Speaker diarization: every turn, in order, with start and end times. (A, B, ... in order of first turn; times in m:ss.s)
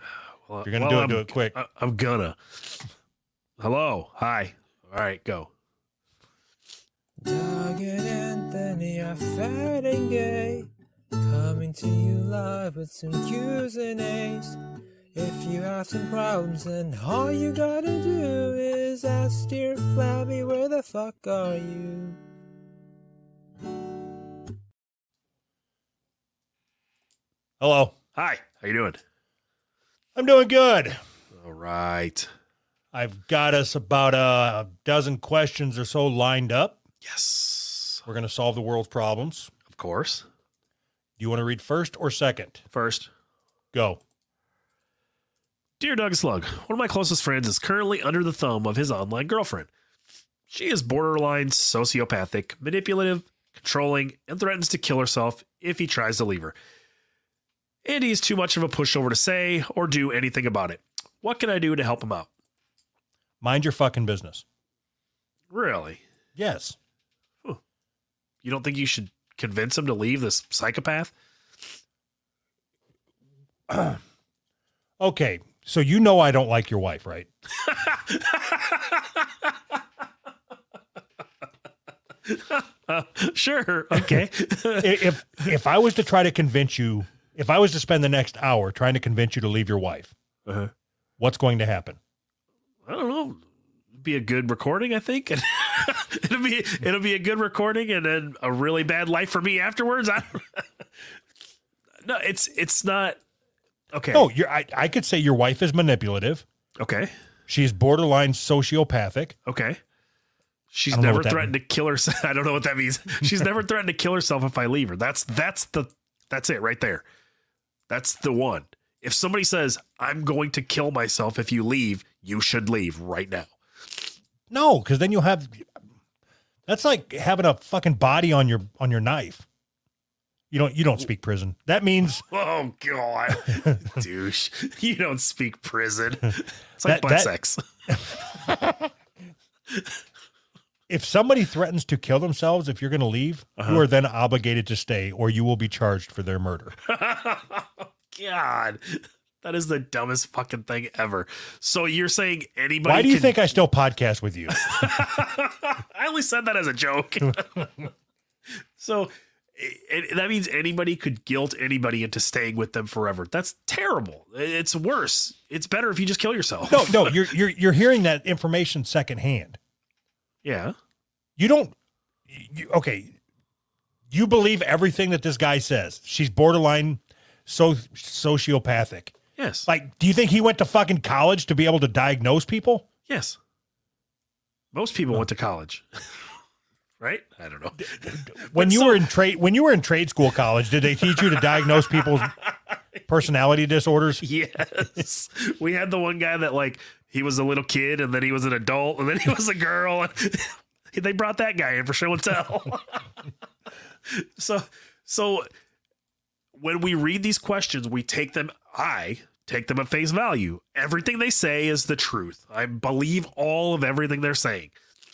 0:00.5-0:02.8 A
0:00.6-0:01.6 B
0:03.6-0:05.5 A
0:07.2-0:10.7 C
0:11.2-0:14.6 C
0:15.1-0:22.2 C
0:27.6-0:27.9 B
0:28.1-0:29.0 A
0:30.1-0:31.0 B
0:31.4-0:32.3 A
0:32.9-0:36.8 B
0:37.0-0:38.0 A
0:38.0-0:39.5 B
0:39.7-0:40.2 A
0:41.2-0:42.6 B
0:42.7-0:43.1 A
0:43.7-0:44.0 B
0:45.8-0:49.7 A
0:50.5-0:56.6 A
0:57.8-1:02.3 A
1:03.4-1:04.4 B
1:05.5-1:06.0 A
1:06.4-1:06.8 B
1:08.4-1:11.1 A
1:13.7-1:14.0 B
1:15.0-1:17.3 B
1:17.6-1:19.5 A
1:22.2-1:25.5 A
1:24.8-1:30.1 B
1:30.5-1:30.7 A
1:31.2-1:32.0 B
1:32.8-1:33.4 A
1:34.0-1:40.7 A
1:42.0-1:43.2 A
1:43.9-1:44.3 A
1:44.1-1:46.4 B
1:46.8-1:47.1 A
1:47.5-1:49.3 B
1:49.4-1:49.8 A
1:50.7-1:57.0 A
1:50.9-1:51.5 B
1:57.9-2:04.1 A
2:04.5-2:05.7 B
2:06.7-2:09.4 B
2:10.5-2:12.2 B
2:12.3-2:17.6 A
2:13.5-2:13.8 B
2:16.8-2:17.3 B
2:18.3-2:18.9 B
2:19.7-2:20.0 A
2:20.9-2:26.8 B
2:23.6-2:23.8 A
2:26.8-2:33.4 A
2:32.8-2:35.0 B
2:34.5-2:37.9 A
2:38.8-2:47.3 A
2:46.7-2:49.6 B
2:50.4-2:50.8 A
2:51.4-2:51.7 B
2:52.3-2:53.2 B
2:54.1-2:59.1 B
2:59.4-2:59.7 A
2:59.7-3:02.9 B
3:03.1-3:03.4 A
3:04.7-3:05.8 A
3:07.0-3:09.1 A
3:08.0-3:12.3 B
3:11.2-3:12.3 A
3:13.1-3:14.2 B
3:14.2-3:23.0 A
3:24.0-3:25.5 A
3:26.6-3:34.7 A